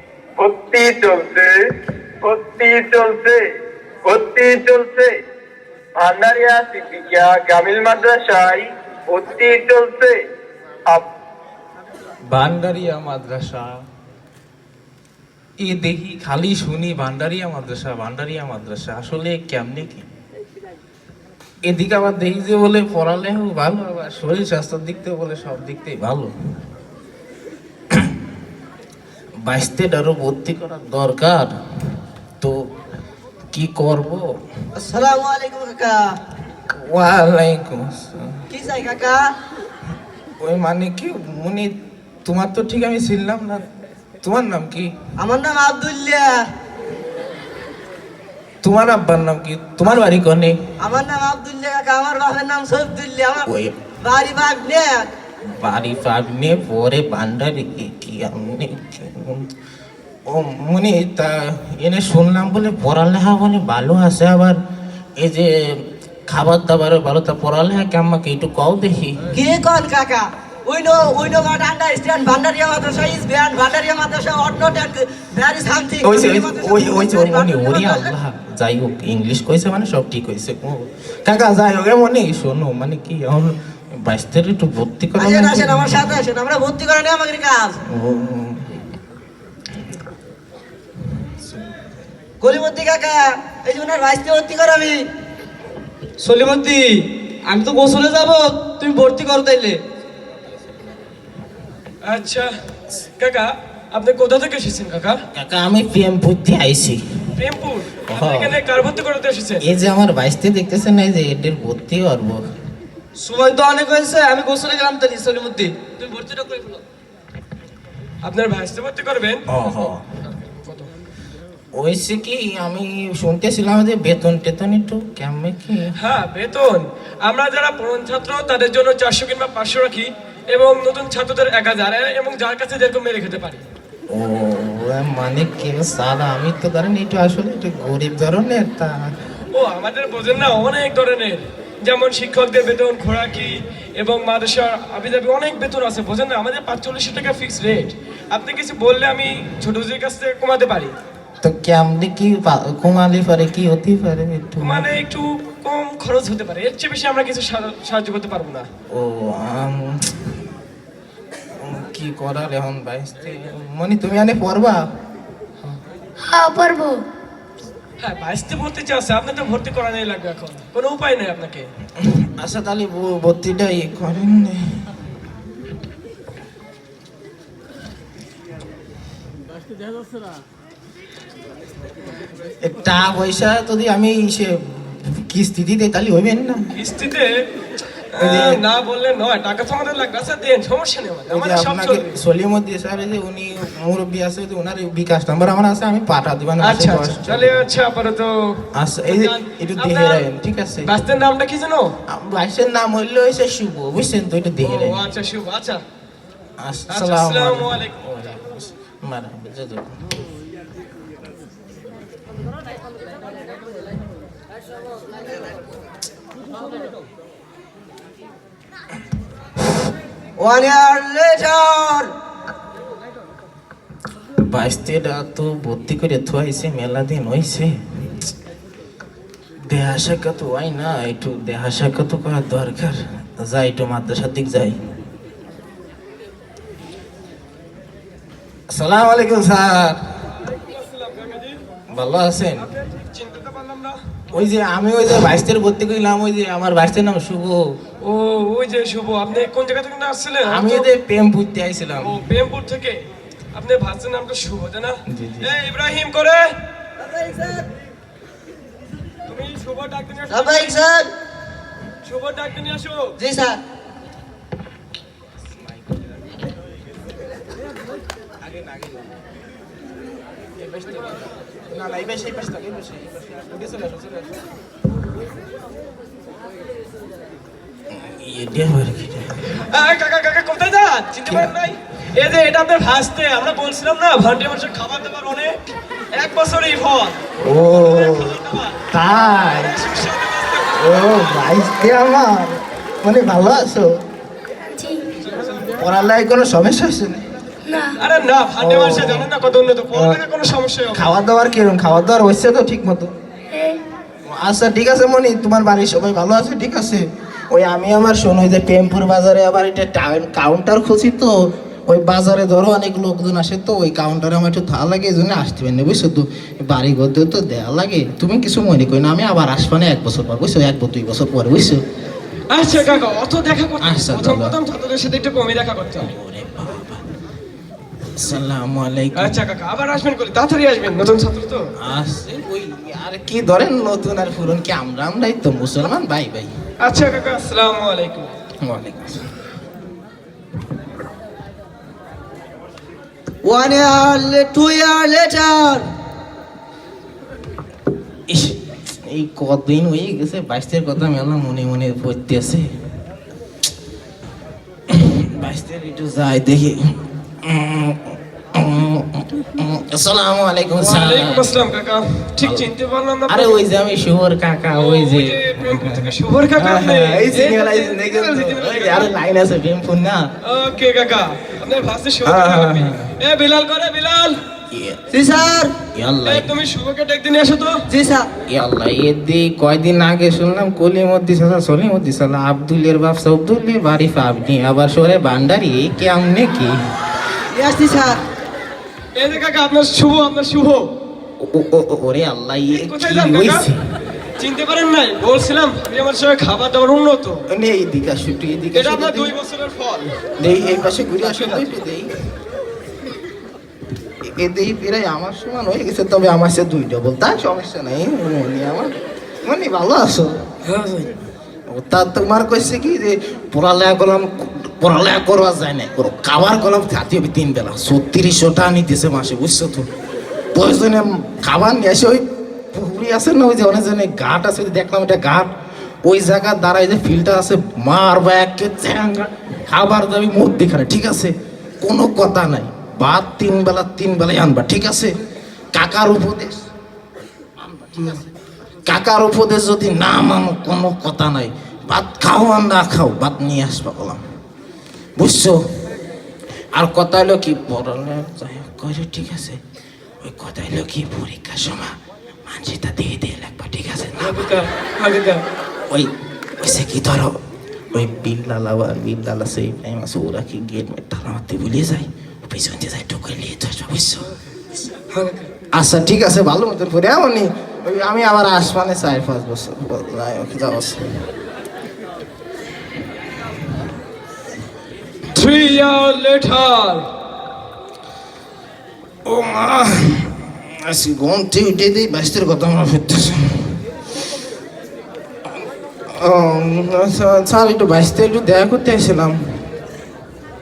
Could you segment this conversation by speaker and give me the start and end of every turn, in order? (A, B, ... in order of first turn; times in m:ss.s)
0:00.4-0:01.6 A
0:02.2-0:03.4 A
0:04.0-0:05.1 A
0:06.0-0:10.2 A
0:12.3-0:13.8 B
0:15.6-0:20.1 B
0:21.6-0:26.3 B
0:27.9-0:28.2 B
0:29.4-0:31.6 B
0:32.4-0:32.7 B
0:33.5-0:34.3 B
0:34.8-0:36.2 C
0:36.7-0:38.4 B
0:38.5-0:39.2 C
0:40.4-0:41.7 B
0:42.2-0:43.6 B
0:44.2-0:44.9 B
0:45.2-0:46.5 C
0:48.6-0:50.6 B
0:50.8-0:53.5 C
0:53.5-0:53.8 B
0:54.0-0:55.0 C
0:55.6-0:59.5 B
1:00.3-1:04.6 B
1:05.2-1:09.4 B
1:09.3-1:18.1 C
1:16.0-1:26.1 B
1:25.2-1:27.8 C
1:27.9-1:28.8 B
1:32.4-1:35.0 C
1:36.3-1:36.8 C
1:37.5-1:38.7 C
1:39.0-1:39.6 D
1:39.2-1:39.5 C
1:42.0-1:42.5 E
1:43.2-1:45.2 E
1:45.3-1:47.0 B
1:47.4-1:49.6 E
1:48.1-1:48.6 B
1:49.6-1:52.4 B
1:53.5-1:54.1 D
1:54.7-1:55.7 D
1:58.2-2:00.9 E
1:59.5-2:00.0 B
2:01.7-2:06.0 B
2:06.0-2:13.6 E
2:14.1-2:19.1 B
2:19.5-2:30.9 E
2:31.4-2:34.9 B
2:34.6-2:38.7 E
2:38.9-2:40.4 B
2:41.6-2:44.9 B
2:46.2-2:47.0 A
2:48.0-2:51.7 E
2:52.0-2:54.9 B
3:02.6-3:06.7 B
3:06.8-3:07.4 E
3:08.1-3:12.2 E
3:08.2-3:08.6 B
3:11.3-3:17.6 B
3:16.6-3:20.3 E
3:18.8-3:20.9 B
3:20.8-3:22.0 E
3:22.1-3:25.1 B
3:24.6-3:25.8 E
3:26.6-3:30.0 B
3:26.9-3:28.0 E
3:40.4-3:42.1 C
3:44.4-3:47.8 B
3:49.7-3:54.8 B
3:58.7-4:00.0 B
4:00.4-4:01.6 E
4:01.9-4:02.7 B
4:02.6-4:04.2 E
4:04.3-4:07.8 B
4:08.0-4:10.9 E
4:10.4-4:12.1 B
4:12.0-4:16.5 E
4:15.1-4:15.5 B
4:17.0-4:17.7 C
4:19.3-4:20.8 E
4:20.3-4:21.1 C
4:22.0-4:23.2 E
4:23.2-4:23.6 C
4:25.5-4:26.3 B
4:28.4-4:29.2 B
4:31.7-4:34.4 B
4:37.9-4:39.6 B
4:39.4-4:45.6 E
4:41.3-4:41.5 B
4:46.1-4:48.8 E
4:47.4-4:48.4 B
4:48.9-4:49.9 B
4:49.5-4:51.5 E
4:50.8-4:54.0 B
4:54.8-4:55.0 A
4:55.6-4:57.3 B
4:57.6-4:58.0 A
4:58.0-5:01.1 E
4:58.6-4:59.3 B
4:59.9-5:00.2 B
5:00.9-5:03.1 B
5:03.5-5:03.8 A
5:04.3-5:21.8 B
5:22.5-5:26.1 E
5:23.8-5:24.6 B
5:26.0-5:27.1 B
5:28.2-5:29.4 B
5:29.2-5:31.7 E
5:31.8-5:36.5 B
5:36.8-5:38.3 E
5:38.6-5:39.3 B
5:43.4-5:45.9 C
5:48.3-5:52.7 B
5:54.9-6:01.5 B
6:00.8-6:03.6 E
6:02.4-6:02.7 B
6:03.3-6:10.3 B
6:04.7-6:09.1 E
6:10.4-6:14.4 E
6:12.2-6:13.1 B
6:14.7-6:15.0 B
6:15.1-6:15.8 C
6:15.9-6:16.5 B
6:16.2-6:17.8 E
6:17.9-6:18.3 C
6:18.5-6:26.8 B
6:27.5-6:28.2 C
6:29.2-6:30.9 E
6:31.4-6:33.8 B
6:32.7-6:33.7 E
6:34.4-6:37.5 E
6:37.5-6:39.3 B
6:38.7-6:40.2 E
6:40.4-6:42.1 B
6:44.2-6:50.5 B
6:50.6-6:51.1 E
6:51.7-6:59.9 B
7:00.5-7:05.5 B
7:06.0-7:15.2 B
7:15.7-7:16.6 B
7:17.8-7:18.2 B
7:18.9-7:24.2 B
7:25.2-7:25.6 B
7:26.7-7:29.6 B
7:30.2-7:34.5 B
7:34.2-7:35.4 E
7:35.9-7:37.4 B
7:37.9-7:44.3 B
7:44.9-7:45.5 E
7:45.7-7:51.2 B
7:55.3-7:57.1 E
7:59.2-8:03.8 B
8:06.1-8:09.6 B